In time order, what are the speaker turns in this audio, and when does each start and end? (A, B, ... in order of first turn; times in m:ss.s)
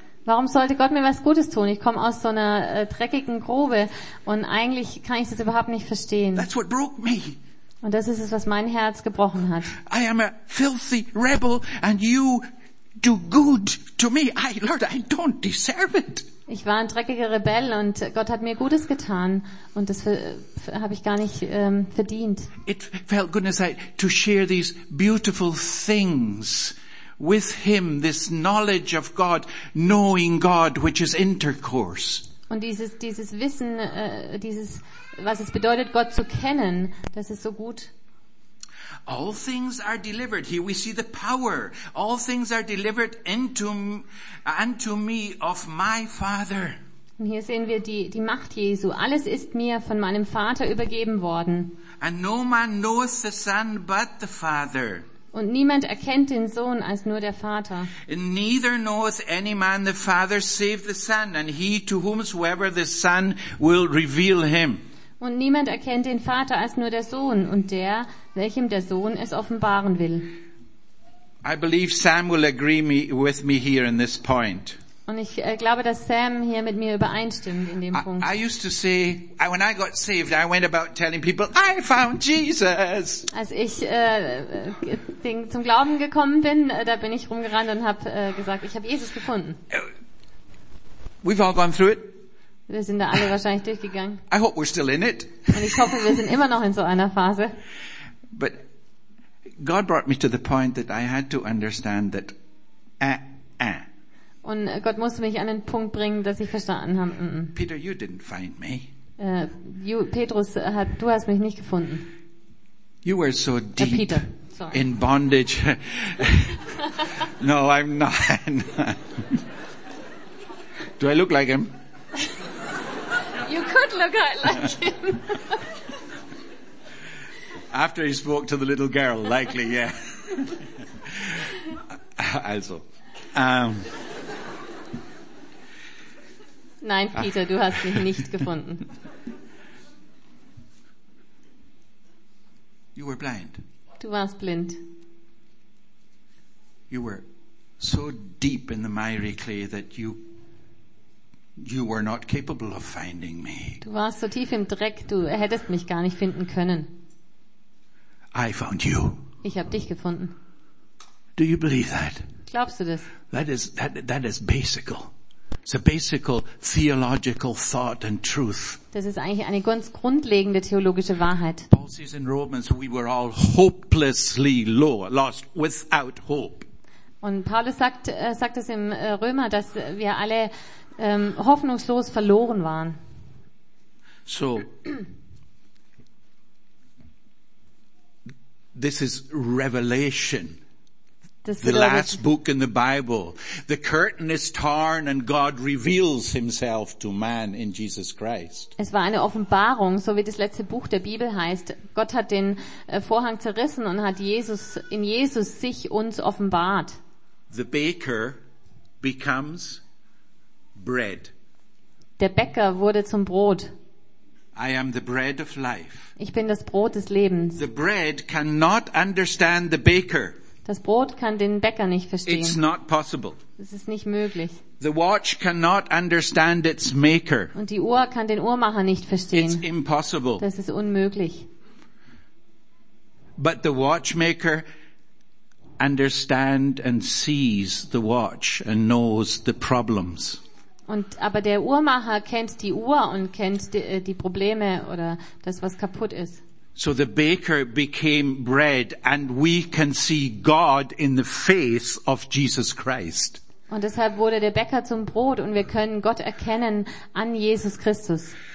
0:00.2-0:06.5 A
0:06.4-0:07.4 B
0:07.8-0:09.8 A
0:09.8-0:12.4 B
0:13.0-0:16.3 B
0:16.5-0:22.5 A
0:22.6-0:32.3 B
0:32.5-0:37.9 A
0:39.0-0:46.8 B
0:47.2-0:51.8 A
0:52.0-0:55.1 B
0:55.3-0:57.9 A
0:58.0-1:04.8 B
1:05.2-1:10.3 A
1:11.4-1:14.8 B
1:15.1-1:18.3 A
1:17.9-1:23.3 B
1:23.3-1:29.6 A
1:31.2-1:32.2 B
1:32.7-1:34.2 A
1:34.3-1:36.1 B
1:35.5-1:37.5 A
1:38.3-1:38.6 B
1:39.6-1:42.3 B
1:43.0-1:43.8 B
1:44.4-1:47.6 A
1:47.5-1:48.9 B
1:49.2-1:52.1 A
1:53.0-1:56.7 B
1:53.8-1:54.8 A
1:57.2-1:59.4 B
2:01.0-2:01.7 B
2:03.4-2:05.6 A
2:07.7-2:11.5 B
2:12.1-2:13.9 B
2:16.8-2:18.9 A
2:22.9-2:23.6 B
2:24.0-2:24.8 A
2:26.9-2:27.2 B
2:27.8-2:30.3 B
2:31.6-2:33.8 B
2:33.8-2:36.9 A
2:38.3-2:39.2 B
2:39.4-2:40.3 A
2:41.4-2:42.2 B
2:42.5-2:43.1 A
2:43.3-2:45.1 B
2:45.6-2:48.8 B
2:48.9-2:51.7 A
2:51.7-2:56.6 B
2:57.2-3:03.0 A
3:04.2-3:04.7 B
3:08.7-3:10.6 B
3:11.4-3:12.2 A
3:11.6-3:18.7 B
3:18.8-3:27.0 A
3:27.5-3:28.4 B
3:29.0-3:29.8 B
3:30.8-3:31.3 B
3:32.2-3:33.7 A
3:34.5-3:36.1 B
3:36.2-3:37.6 A
3:37.6-3:40.4 B
3:40.6-3:42.6 A
3:42.2-3:43.4 B
3:43.6-3:44.6 A
3:44.8-3:47.5 B
3:47.5-3:49.6 A
3:49.3-3:50.4 B
3:50.4-3:51.5 A
3:53.4-3:54.6 B
3:55.8-4:00.4 B
4:00.9-4:06.4 A
4:06.8-4:13.4 B
4:13.7-4:18.4 A